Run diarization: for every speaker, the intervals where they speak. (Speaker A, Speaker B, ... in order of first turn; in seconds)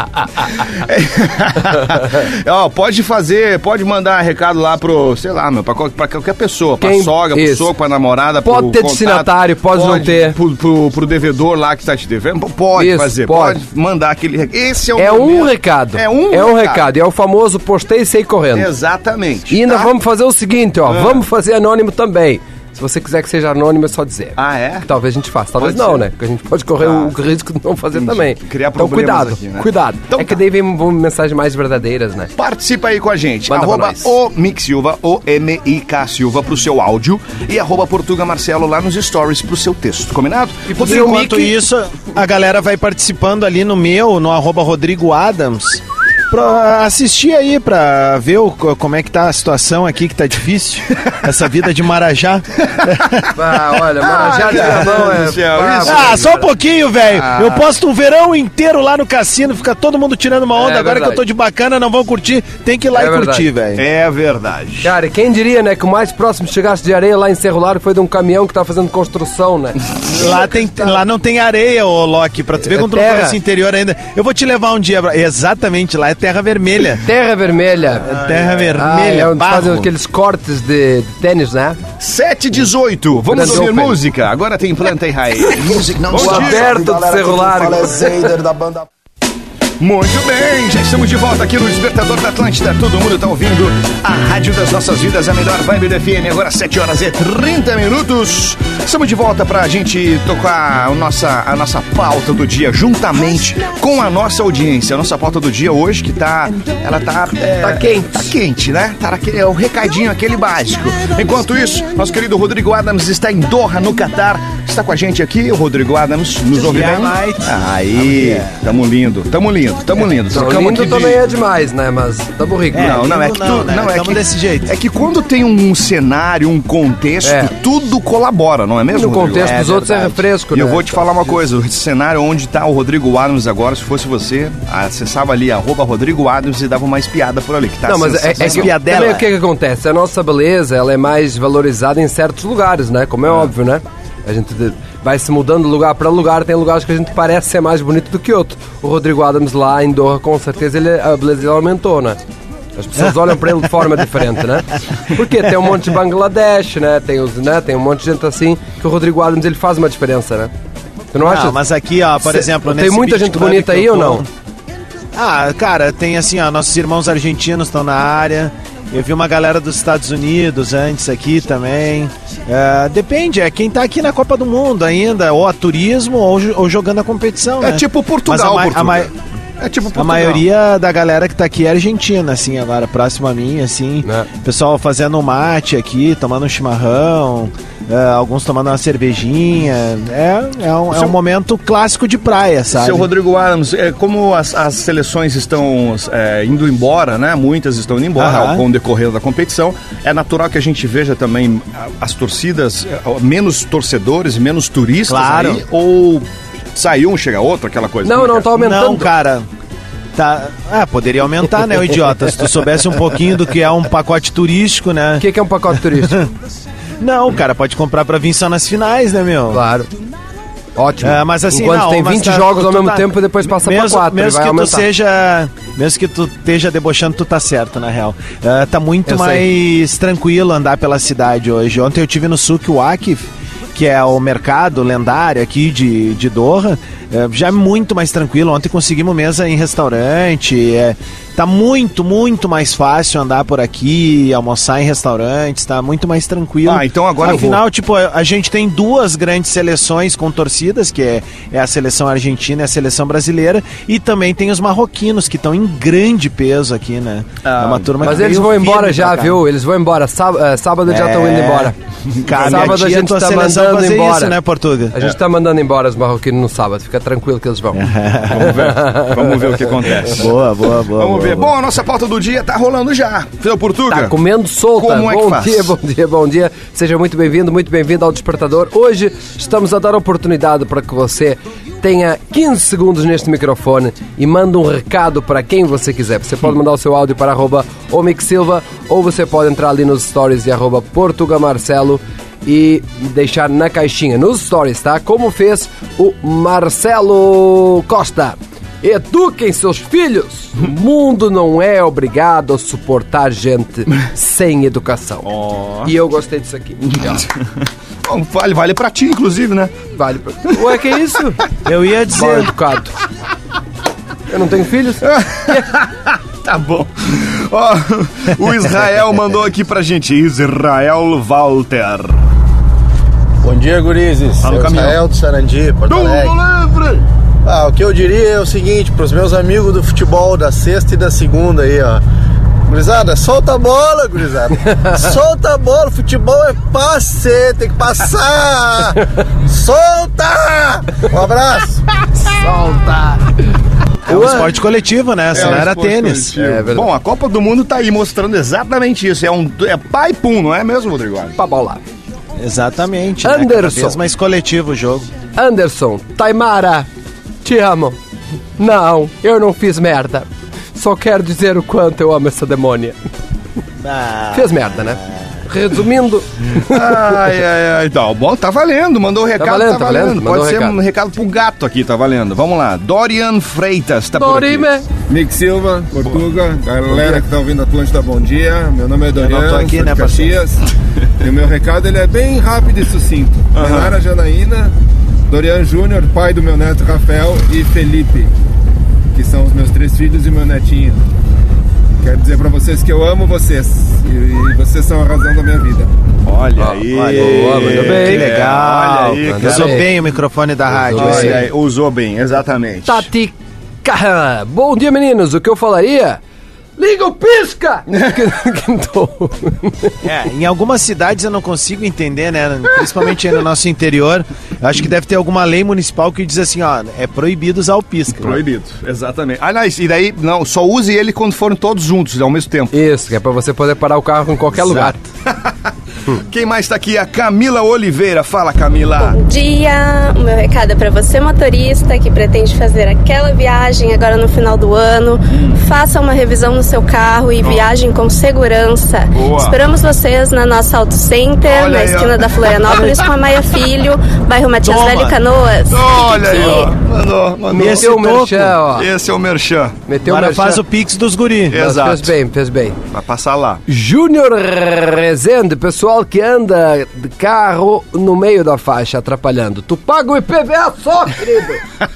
Speaker A: 0.8-16.8, 18.5-19.9, 20.9-21.2, 24.4-24.9, 25.6-26.0, 26.8-27.1, 27.9-30.4, 32.4-41.4, 52.8-53.2, 54.0-56.2, 57.1-57.6, 63.8-64.9, 82.0-88.8, 89.8-121.2, 122.8-129.9, 130.5-138.7, 177.6-180.4, 192.7-208.5, 246.6-247.6, 257.4-258.2, 262.1-262.8, 268.3-270.4, 270.9-274.2, 274.7-275.7, 305.2-305.9, 306.9-307.3, 308.0-309.7, 315.0-322.2, 324.4-325.0, 325.9-327.0, 345.3-351.3, 366.6-374.7, 383.5-383.9, 396.2-399.9, 400.9-403.1, 407.9-408.2, 418.2-422.7, 426.1-429.2, 437.4-437.7, 439.1-439.6, 441.4-443.1, 445.7-447.9, 448.7-449.7, 451.5-452.1, 452.9-453.6
Speaker B: 6.8-7.7, 8.4-10.3, 12.8-13.6, 15.0-18.7, 19.5-32.3, 33.5-34.1, 40.7-41.5, 53.3-56.5, 60.5-61.2, 62.9-63.5, 64.8-69.8, 72.6-73.4, 77.0-78.1, 78.8-81.8, 83.3-84.0, 86.1-88.3, 107.6-108.3, 120.3-123.0, 127.2-127.5, 128.9-131.3, 137.8-152.2, 152.8-160.5, 161.1-161.6, 162.2-164.2, 208.0-209.1, 215.2-216.2, 219.5-219.9, 220.8-224.9, 229.1-229.4, 258.0-261.7, 262.4-264.4, 264.9-267.9, 268.7-269.4, 273.9-305.3, 305.8-307.1, 309.9-311.4, 312.1-312.9, 314.3-315.7, 342.2-343.3, 344.1-344.5, 346.4-346.9, 351.4-351.8, 353.2-354.0, 355.4-356.9, 357.4-358.0, 358.6-362.9, 364.3-366.9, 369.4-370.8, 374.1-374.9, 396.6-398.3, 399.2-399.9, 400.9-401.4, 402.9-406.2, 406.8-409.9, 422.7-425.0, 447.5-448.9, 449.9-450.6, 451.5-452.8, 453.7-461.6
Speaker C: 40.8-53.1, 54.5-54.9, 55.8-63.8, 70.1-77.0, 78.0-79.9, 116.5-118.7, 122.7-124.7, 129.4-130.2, 138.4-139.3, 161.2-164.3, 165.1-179.1, 179.9-193.1, 198.2-198.6, 205.1-205.6, 208.5-209.5, 210.1-215.2, 216.0-216.2, 217.0-219.6, 221.0-259.4, 260.9-261.7, 262.2-264.9, 267.7-268.7, 270.0-271.5, 311.6-312.5, 344.1-346.4, 352.4-355.1, 363.8-365.2, 379.2-380.4, 396.9-401.4, 410.0-418.4, 424.6-424.9, 444.6-445.2, 447.5-448.6, 450.0-451.6
Speaker D: 323.4-326.4, 327.4-332.0, 332.7-341.8
Speaker E: 375.1-380.6, 381.2-384.7, 385.3-388.3, 389.1-391.0, 392.0-395.9
Speaker F: 429.0-446.7